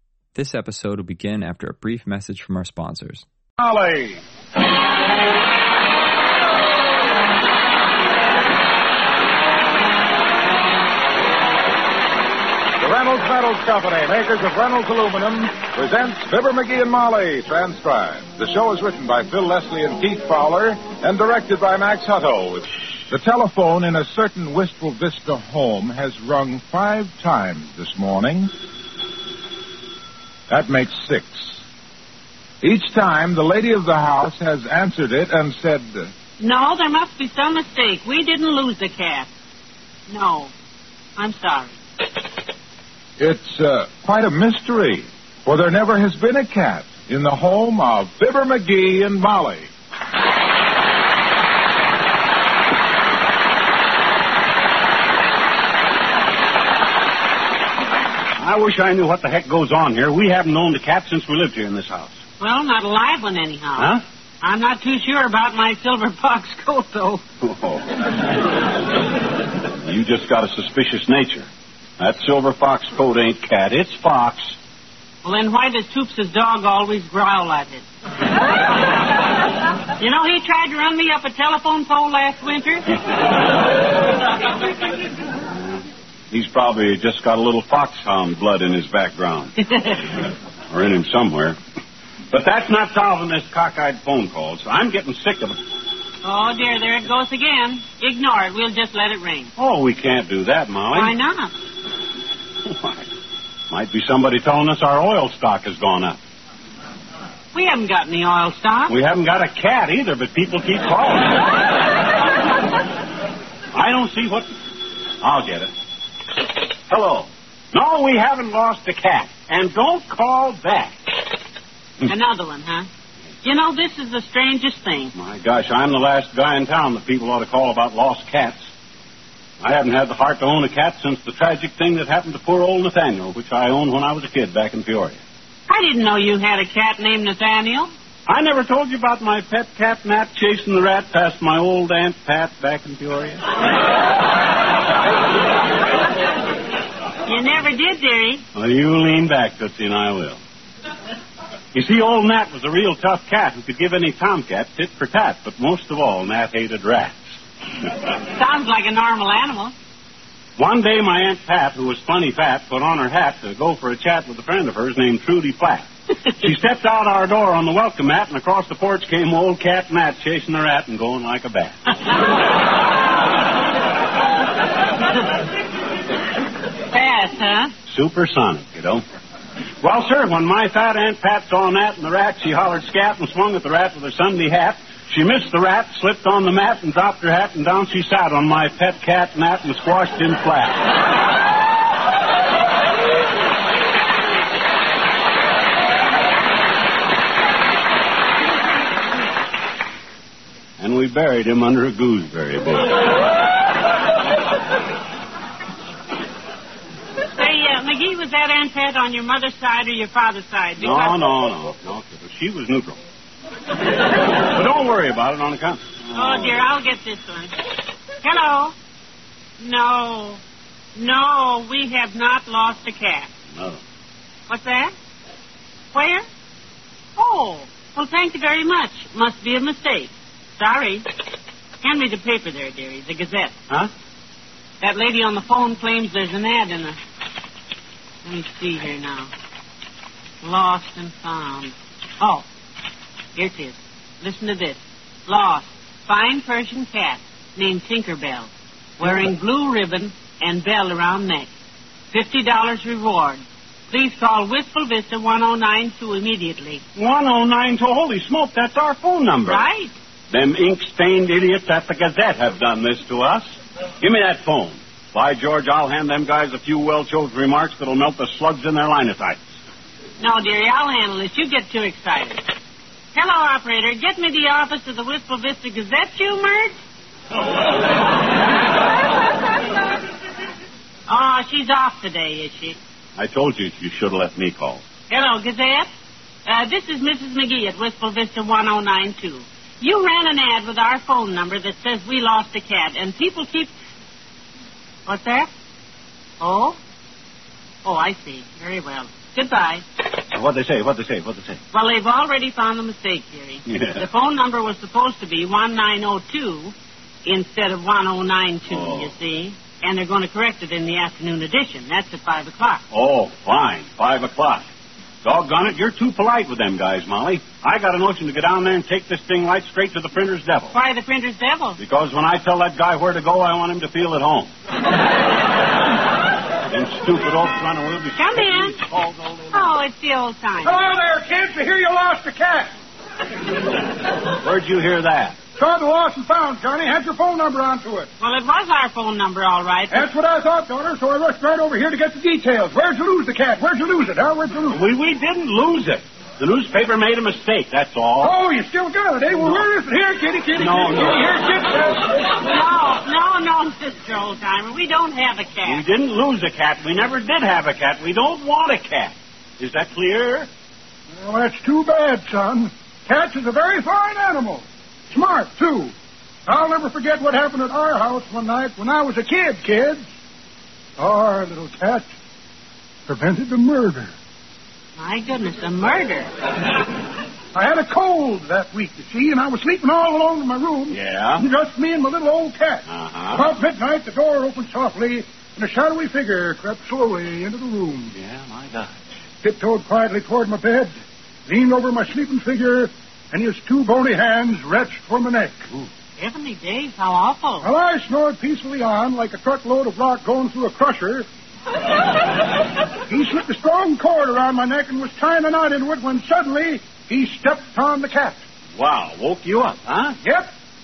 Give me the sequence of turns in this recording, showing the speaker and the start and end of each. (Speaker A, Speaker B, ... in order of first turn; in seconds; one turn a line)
Speaker A: 0.3-3.2
Speaker B: 3.6-4.2
Speaker B: 12.8-28.5
Speaker B: 30.5-31.6
Speaker B: 32.6-36.1
Speaker C: 36.4-39.3
Speaker C: 40.1-40.5
Speaker C: 41.2-41.8
Speaker B: 43.2-49.7
Speaker D: 58.4-62.1
Speaker C: 62.4-67.2
Speaker D: 63.8-64.0
Speaker D: 67.4-68.2
Speaker D: 69.8-71.5
Speaker D: 72.0-74.5
Speaker C: 75.2-77.8
Speaker C: 80.0-82.9
Speaker D: 86.3-89.5
Speaker C: 89.7-90.0
Speaker D: 90.7-91.6
Speaker D: 92.3-95.6
Speaker C: 96.2-99.5
Speaker D: 99.6-101.2
Speaker C: 100.9-101.5
Speaker D: 102.6-103.0
Speaker D: 103.7-106.2
Speaker C: 107.5-108.9
Speaker D: 108.9-111.6
Speaker D: 113.7-114.5
Speaker D: 115.2-115.7
Speaker D: 116.9-120.9
Speaker C: 122.0-122.9
Speaker C: 123.4-125.1
Speaker D: 125.1-128.7
Speaker D: 129.6-135.2
Speaker C: 135.7-137.9
Speaker D: 138.3-143.4
Speaker C: 147.2-148.4
Speaker D: 148.5-150.4
Speaker D: 151.7-157.3
Speaker C: 158.3-159.7
Speaker D: 160.6-171.9
Speaker C: 176.9-177.7
Speaker D: 177.9-179.0
Speaker D: 179.8-190.9
Speaker D: 200.8-203.1
Speaker C: 207.3-211.3
Speaker D: 210.8-213.0
Speaker D: 214.2-216.6
Speaker C: 216.1-217.5
Speaker C: 218.2-218.7
Speaker C: 219.6-220.4
Speaker C: 220.9-223.3
Speaker C: 224.5-224.9
Speaker C: 225.9-226.2
Speaker C: 227.2-231.1
Speaker C: 231.8-233.5
Speaker C: 234.8-237.0
Speaker C: 238.2-239.3
Speaker C: 240.4-242.4
Speaker C: 243.3-251.5
Speaker C: 252.1-256.8
Speaker D: 256.9-259.6
Speaker C: 259.4-259.9
Speaker D: 260.3-269.4
Speaker C: 270.2-272.4
Speaker C: 273.1-276.8
Speaker C: 281.1-282.8
Speaker D: 283.2-284.8
Speaker C: 285.1-285.9
Speaker C: 286.4-293.7
Speaker C: 295.1-295.5
Speaker C: 296.4-296.8
Speaker C: 297.8-299.8
Speaker D: 300.3-301.6
Speaker C: 301.7-306.7
Speaker D: 303.6-304.0
Speaker C: 307.2-312.8
Speaker D: 308.7-309.1
Speaker D: 312.9-314.6
Speaker D: 315.2-320.7
Speaker C: 320.7-321.8
Speaker D: 321.8-324.5
Speaker D: 326.7-329.7
Speaker C: 328.1-328.8
Speaker C: 329.5-330.8
Speaker E: 330.6-332.7
Speaker D: 334.3-335.4
Speaker E: 335.6-338.1
Speaker C: 338.2-340.1
Speaker E: 339.9-344.8
Speaker D: 344.7-348.4
Speaker E: 348.2-352.2
Speaker D: 350.5-351.7
Speaker C: 352.4-355.8
Speaker D: 355.6-360.5
Speaker E: 361.1-365.9
Speaker E: 366.5-370.1
Speaker E: 371.0-372.1
Speaker E: 373.1-374.1
Speaker C: 375.0-376.3
Speaker E: 377.5-388.1
Speaker D: 380.9-381.4
Speaker D: 382.9-383.5
Speaker D: 388.1-389.0
Speaker E: 389.4-390.9
Speaker E: 391.5-395.6
Speaker C: 396.2-397.7
Speaker E: 397.6-401.3
Speaker E: 403.1-408.4
Speaker D: 408.8-410.2
Speaker E: 410.2-410.5